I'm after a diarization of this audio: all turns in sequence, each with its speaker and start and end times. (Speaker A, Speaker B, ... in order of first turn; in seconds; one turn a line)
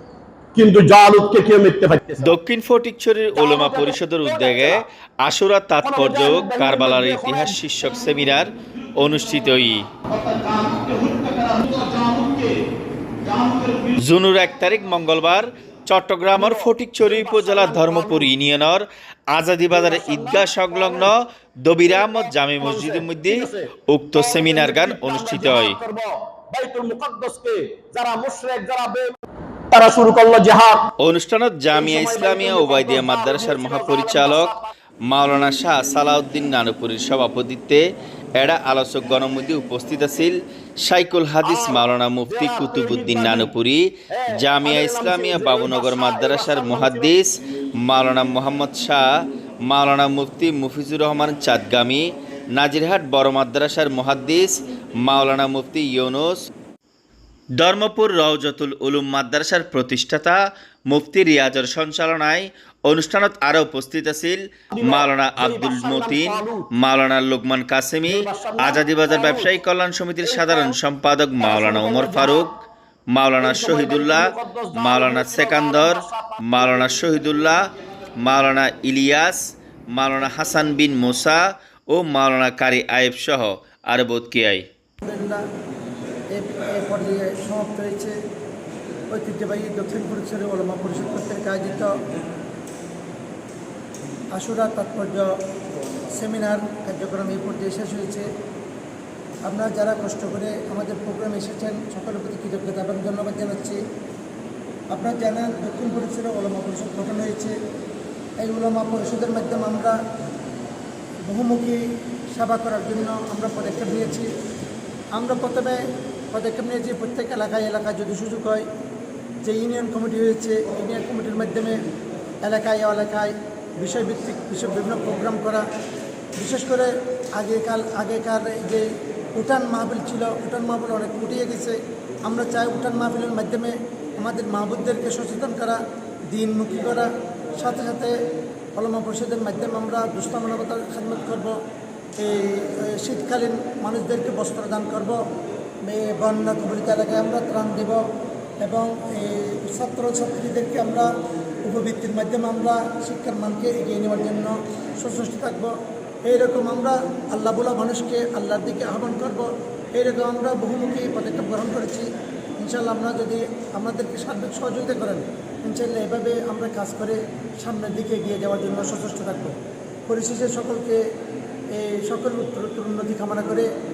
Speaker A: 0.5-2.3
Speaker B: 2.2-9.9
Speaker A: 3.3-4.8
Speaker A: 5.8-7.6
Speaker A: 10.1-12.5
Speaker A: 13.2-14.0
Speaker B: 14.0-25.8
Speaker A: 16.3-18.3
Speaker A: 19.7-21.1
Speaker A: 21.9-29.2
Speaker A: 29.7-30.9
Speaker B: 31.0-34.5
Speaker A: 31.7-34.7
Speaker B: 35.1-37.8
Speaker B: 38.4-49.1
Speaker A: 41.4-43.5
Speaker A: 44.1-47.1
Speaker B: 49.6-56.5
Speaker B: 57.6-72.5
Speaker A: 64.7-66.7
Speaker A: 68.1-69.5
Speaker A: 70.2-70.8
Speaker A: 71.4-72.5
Speaker B: 73.1-84.7
Speaker A: 73.4-77.0
Speaker C: 85.0-85.4
Speaker C: 86.3-88.2
Speaker C: 89.1-92.0
Speaker C: 94.3-95.3
Speaker C: 96.1-98.3
Speaker C: 99.5-103.8
Speaker C: 104.9-107.5
Speaker C: 108.4-110.0
Speaker C: 111.3-114.3
Speaker C: 115.1-118.6
Speaker C: 119.4-121.8
Speaker C: 122.4-125.6
Speaker C: 126.4-135.8
Speaker C: 136.3-138.2
Speaker C: 138.7-141.6
Speaker C: 142.2-145.2
Speaker C: 145.8-148.0
Speaker C: 148.6-151.1
Speaker C: 151.6-162.1
Speaker C: 162.6-169.6
Speaker C: 170.1-171.0
Speaker C: 171.7-173.7